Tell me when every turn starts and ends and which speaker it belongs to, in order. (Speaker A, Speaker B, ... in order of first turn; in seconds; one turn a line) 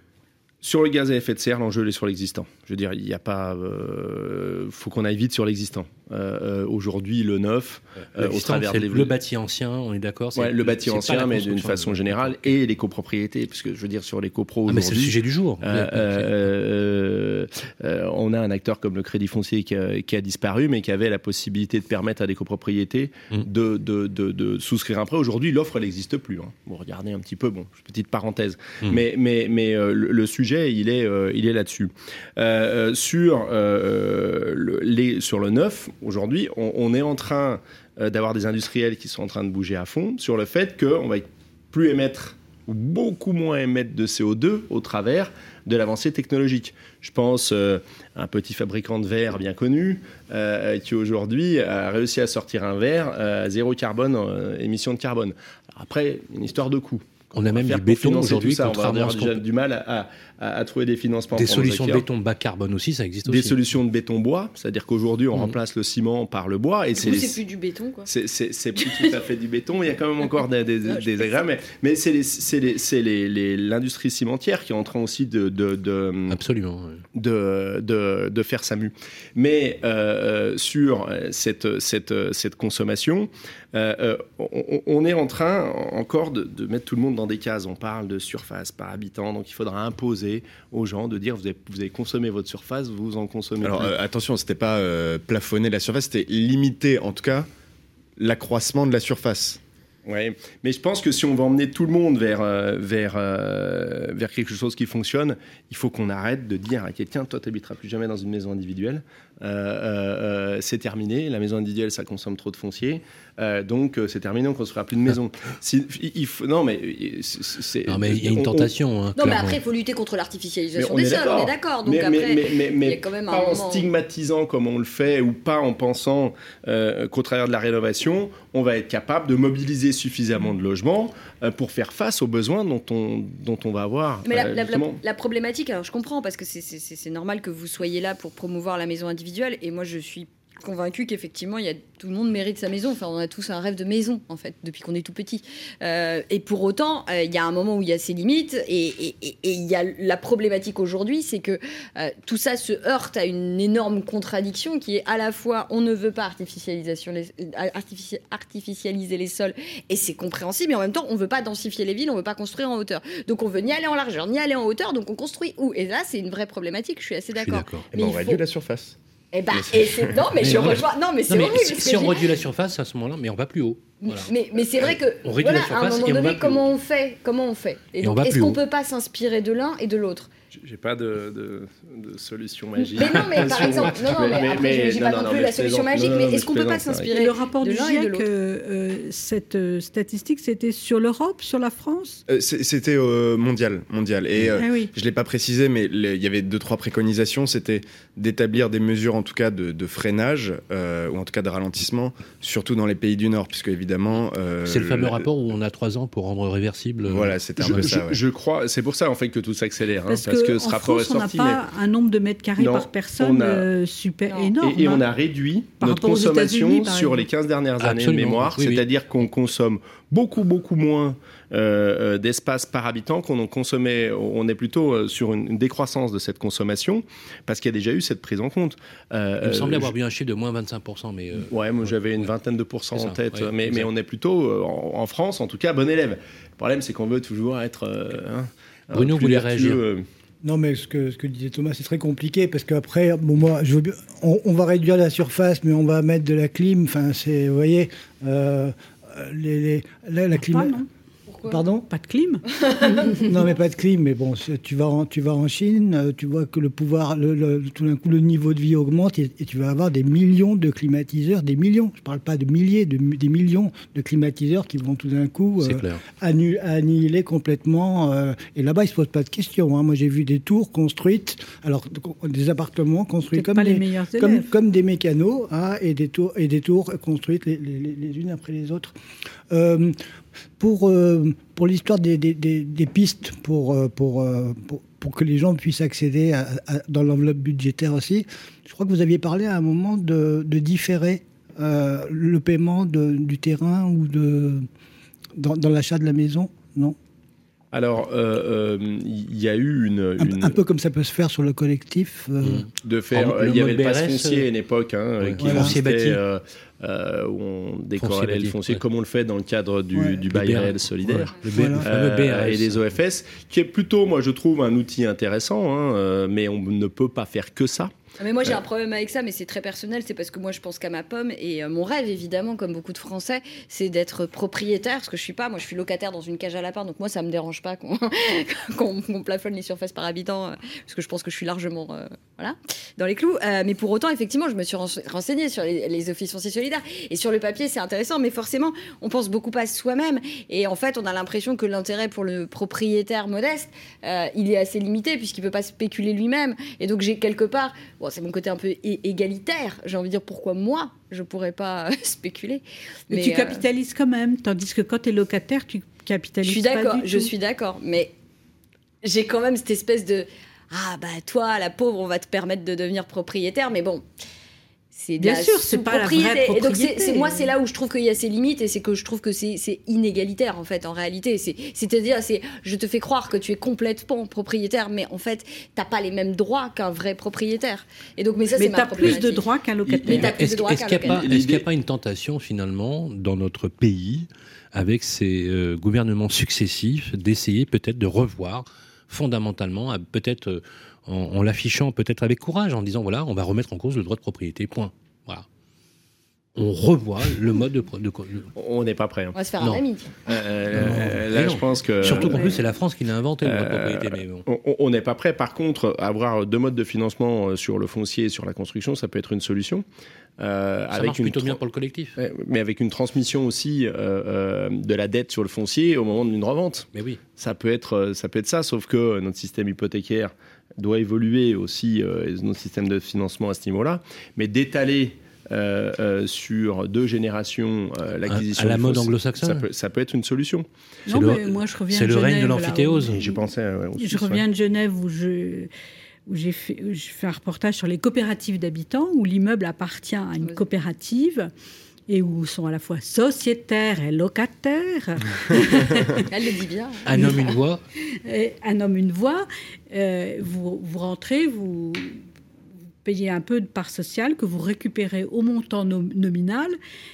Speaker A: 0.6-9.1
Speaker B: 8.2-12.5
Speaker A: 10.3-62.0
Speaker B: 14.7-16.5
Speaker B: 57.3-59.4
Speaker B: 61.3-63.6
Speaker A: 63.2-67.4
Speaker C: 67.0-68.1
Speaker A: 68.0-76.4
Speaker C: 68.8-69.1
Speaker C: 70.8-71.4
Speaker B: 76.3-77.0
Speaker A: 77.1-93.9
Speaker D: 93.6-97.5
Speaker D: 98.2-99.6
Speaker A: 100.0-118.7
Speaker B: 117.9-119.6
Speaker C: 119.2-123.9
Speaker A: 120.7-135.0
Speaker C: 134.2-168.4
Speaker B: 167.3-167.9
Speaker D: 167.9-168.9
Speaker C: 169.3-172.2
Speaker D: 169.5-170.8
Speaker B: 170.4-174.3
Speaker C: 174.0-180.3
Speaker B: 174.9-176.6
Speaker B: 178.0-178.6
Speaker A: 180.5-187.1
Speaker C: 182.8-188.3
Speaker B: 183.0-183.9
Speaker E: 187.1-192.2
Speaker D: 192.3-205.3
Speaker E: 194.6-194.9
Speaker B: 204.6-208.0
Speaker D: 207.0-208.2
Speaker A: 207.7-211.6
Speaker E: 210.1-215.0
Speaker A: 212.6-213.7
Speaker C: 214.3-214.6
Speaker A: 214.6-229.9
Speaker E: 215.8-217.3
Speaker B: 217.8-218.8
Speaker B: 229.4-232.3
Speaker A: 231.5-240.1
Speaker B: 232.9-233.9
Speaker B: 238.9-239.8
Speaker F: 240.4-250.8
Speaker E: 250.4-250.9
Speaker C: 251.3-251.6
Speaker F: 251.5-251.9
Speaker E: 251.9-253.2
Speaker C: 252.6-253.0
Speaker F: 253.2-278.9
Speaker B: 265.6-266.0
Speaker E: 273.3-274.5
Speaker F: 279.5-280.0
Speaker F: 280.6-294.7
Speaker F: 295.4-296.9
Speaker A: 297.7-300.6
Speaker F: 300.2-302.7
Speaker B: 302.4-304.5
Speaker A: 302.7-317.9
Speaker B: 305.2-306.2
Speaker F: 305.4-305.8
Speaker B: 308.0-308.8
Speaker F: 309.9-310.2
Speaker B: 310.3-312.9
Speaker F: 311.5-311.9
Speaker C: 318.2-353.6
Speaker E: 353.1-357.3
Speaker C: 356.4-358.1
Speaker C: 359.0-364.0
Speaker C: 364.9-379.5
Speaker E: 365.2-367.5
Speaker E: 378.5-380.2
Speaker A: 379.9-380.3
Speaker C: 380.1-381.2
Speaker B: 380.1-395.4
Speaker A: 381.0-381.6
Speaker B: 396.6-398.5
Speaker A: 398.5-399.4
Speaker C: 399.3-400.4
Speaker A: 400.3-402.6
Speaker B: 400.7-404.4
Speaker E: 402.2-402.4
Speaker A: 403.4-409.8
Speaker A: 410.4-411.6
Speaker B: 410.9-412.2
Speaker A: 412.2-430.7
Speaker B: 416.9-417.2
Speaker B: 428.3-429.6
Speaker E: 431.1-433.4
Speaker B: 431.1-433.1
Speaker A: 433.1-434.4
Speaker E: 434.0-435.7
Speaker E: 436.2-441.5
Speaker E: 442.1-446.3
Speaker C: 446.3-447.5
Speaker B: 447.1-447.8
Speaker E: 448.2-452.2
Speaker E: 453.0-456.8